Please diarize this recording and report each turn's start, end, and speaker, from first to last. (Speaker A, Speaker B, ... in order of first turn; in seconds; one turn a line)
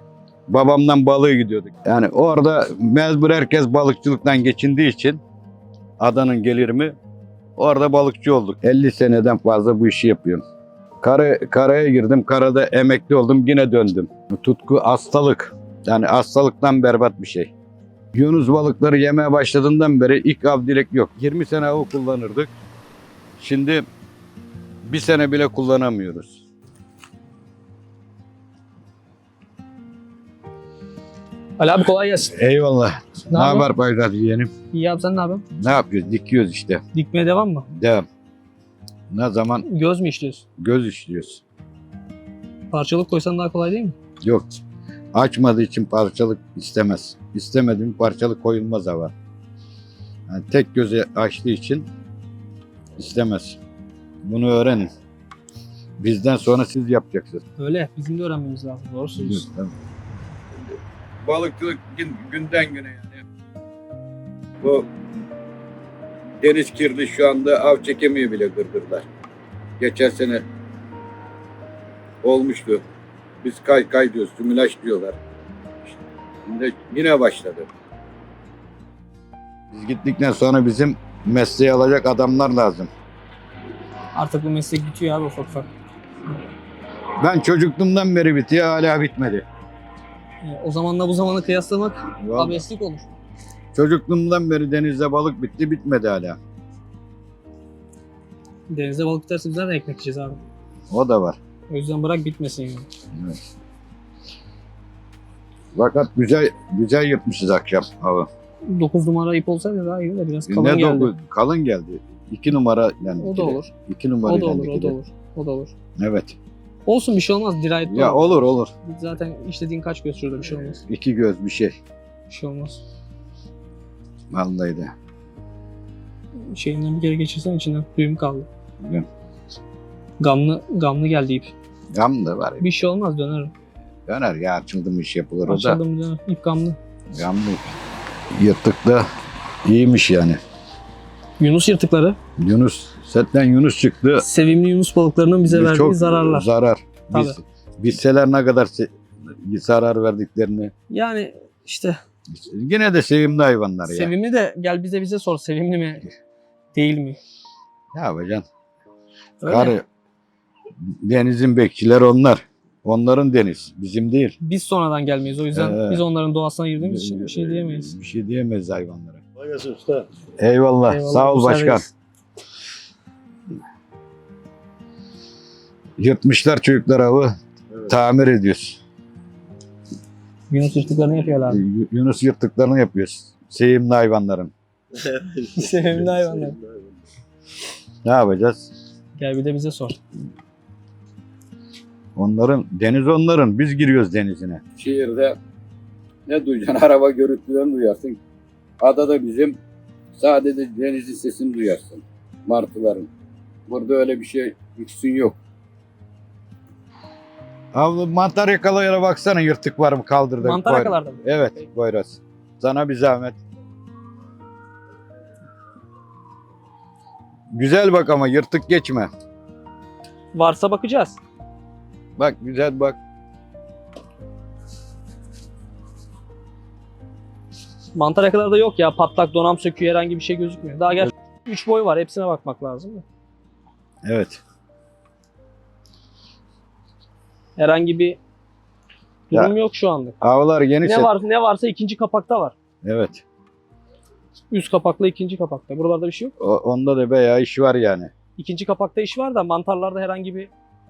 Speaker A: 0.5-5.2
Speaker A: 6.0-6.9
Speaker A: 7.6-10.4
Speaker A: 11.0-17.5
Speaker A: 18.1-22.5
Speaker A: 23.4-23.9
Speaker A: 24.9-26.4
Speaker B: 31.6-32.4
Speaker A: 32.3-34.5
Speaker B: 33.3-33.7
Speaker B: 34.7-35.5
Speaker A: 35.5-36.8
Speaker B: 36.9-37.7
Speaker A: 37.7-38.0
Speaker A: 39.1-39.7
Speaker B: 39.6-40.5
Speaker A: 40.6-41.4
Speaker B: 42.7-44.0
Speaker A: 44.2-44.5
Speaker A: 45.1-49.1
Speaker A: 50.3-51.9
Speaker A: 53.0-53.6
Speaker A: 54.2-54.9
Speaker A: 56.0-57.4
Speaker B: 57.6-59.5
Speaker A: 59.2-59.7
Speaker A: 61.2-63.2
Speaker A: 64.6-64.9
Speaker A: 66.4-69.0
Speaker A: 69.8-70.5
Speaker A: 72.2-72.8
Speaker A: 73.4-75.2
Speaker A: 75.9-77.7
Speaker A: 79.7-82.9
Speaker B: 84.1-85.7
Speaker A: 87.2-89.4
Speaker B: 90.4-93.1
Speaker A: 92.2-92.6
Speaker A: 93.7-96.4
Speaker B: 98.7-100.4
Speaker A: 100.9-101.4
Speaker B: 101.7-102.9
Speaker A: 103.1-103.4
Speaker A: 105.8-108.3
Speaker B: 108.7-111.1
Speaker A: 110.5-115.0
Speaker B: 113.2-113.7
Speaker B: 114.2-115.7
Speaker A: 116.0-116.4
Speaker B: 116.9-120.8
Speaker A: 117.8-118.7
Speaker A: 120.6-121.8
Speaker B: 122.3-122.8
Speaker A: 124.3-124.9
Speaker B: 126.4-128.5
Speaker A: 128.8-129.1
Speaker B: 130.2-131.5
Speaker A: 131.9-132.7
Speaker B: 132.6-133.5
Speaker A: 134.1-135.8
Speaker B: 135.5-136.8
Speaker A: 137.1-137.8
Speaker A: 138.3-139.1
Speaker A: 139.7-140.4
Speaker B: 141.4-142.2
Speaker A: 142.4-144.2
Speaker B: 144.2-146.5
Speaker A: 145.5-150.7
Speaker B: 147.1-147.4
Speaker B: 150.9-152.0
Speaker A: 152.3-154.1
Speaker B: 153.8-156.1
Speaker B: 156.7-157.2
Speaker A: 157.9-158.5
Speaker B: 159.4-159.8
Speaker A: 159.4-159.8
Speaker A: 160.8-164.4
Speaker B: 164.4-168.0
Speaker A: 165.5-166.0
Speaker A: 166.8-169.2
Speaker C: 169.4-170.1
Speaker A: 170.4-171.8
Speaker B: 170.9-171.9
Speaker A: 176.0-177.4
Speaker C: 177.7-177.9
Speaker A: 177.9-178.8
Speaker B: 180.5-181.6
Speaker A: 181.4-184.5
Speaker C: 185.0-187.0
Speaker B: 185.6-186.6
Speaker A: 188.1-188.7
Speaker B: 189.2-190.0
Speaker A: 192.2-195.4
Speaker A: 196.3-198.2
Speaker A: 198.8-199.6
Speaker A: 200.1-203.1
Speaker A: 203.7-205.4
Speaker A: 207.7-213.4
Speaker B: 210.4-211.2
Speaker A: 217.5-219.1
Speaker B: 220.3-221.2
Speaker A: 222.2-223.0
Speaker B: 227.9-233.1
Speaker A: 234.0-234.4
Speaker B: 237.6-238.2
Speaker B: 239.3-240.2
Speaker A: 240.2-241.2
Speaker B: 240.8-242.6
Speaker A: 242.8-243.2
Speaker B: 244.5-246.3
Speaker A: 246.4-248.1
Speaker B: 248.4-250.5